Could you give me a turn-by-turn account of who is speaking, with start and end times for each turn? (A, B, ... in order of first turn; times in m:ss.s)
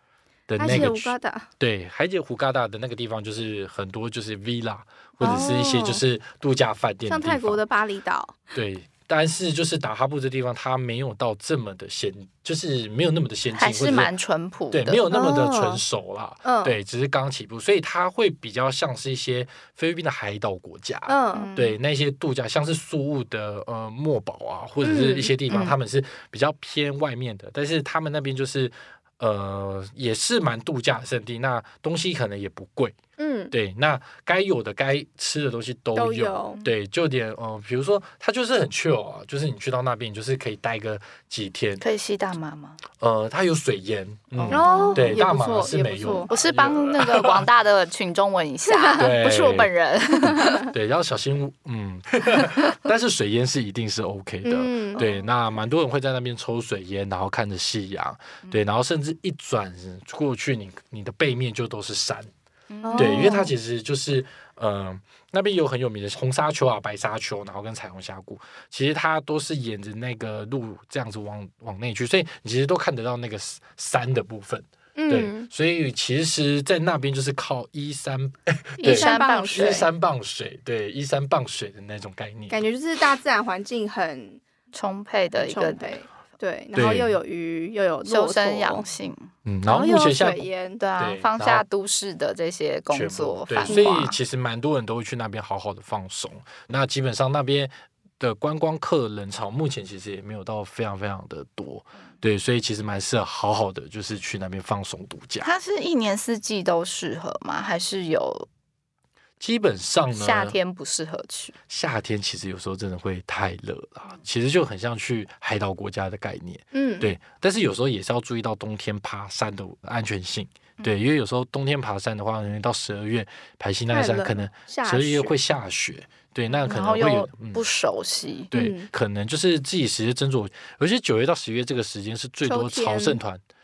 0:00.5-0:07.6 A
0:00.6-0:01.5 B
0:05.2-0:06.0 B
0:07.1-0:08.4 B
0:08.5-0:14.1 A
0:13.5-0:15.0 C
0:14.7-0:33.0 A
0:15.1-0:15.8 B
0:16.4-0:16.7 B
0:21.1-0:21.5 B
0:21.3-0:21.8 C
0:24.8-0:25.3 B
0:33.2-0:33.5 B
0:33.5-0:41.8 A
0:36.0-0:36.6 B
0:41.8-0:42.8 C
0:43.0-0:47.4 A
0:44.3-0:45.2 C
0:44.5-0:46.3 B
0:46.3-0:50.7 C
0:49.0-0:49.7 A
0:50.6-1:02.3 A
0:54.4-0:55.1 B
1:02.7-1:03.4 C
1:02.8-1:03.5 B
1:02.9-1:22.6 A
1:15.0-1:15.5 B
1:18.8-1:19.9 C
1:18.8-1:19.8 B
1:22.5-1:24.4 B
1:24.7-1:26.0 C
1:25.4-1:28.8 B
1:26.7-1:27.1 A
1:28.0-1:29.3 C
1:29.4-1:31.6 A
1:29.7-1:30.8 B
1:30.8-1:34.2 C
1:32.9-1:45.5 A
1:33.7-1:34.0 B
1:45.4-1:48.5 C
1:49.4-1:50.5 A
1:50.1-1:51.5 C
1:51.7-2:07.6 A
1:56.7-1:57.1 B
2:03.9-2:05.3 B
2:06.6-2:08.5 C
2:08.5-2:13.4 A
2:08.5-2:08.9 B
2:12.4-2:13.2 B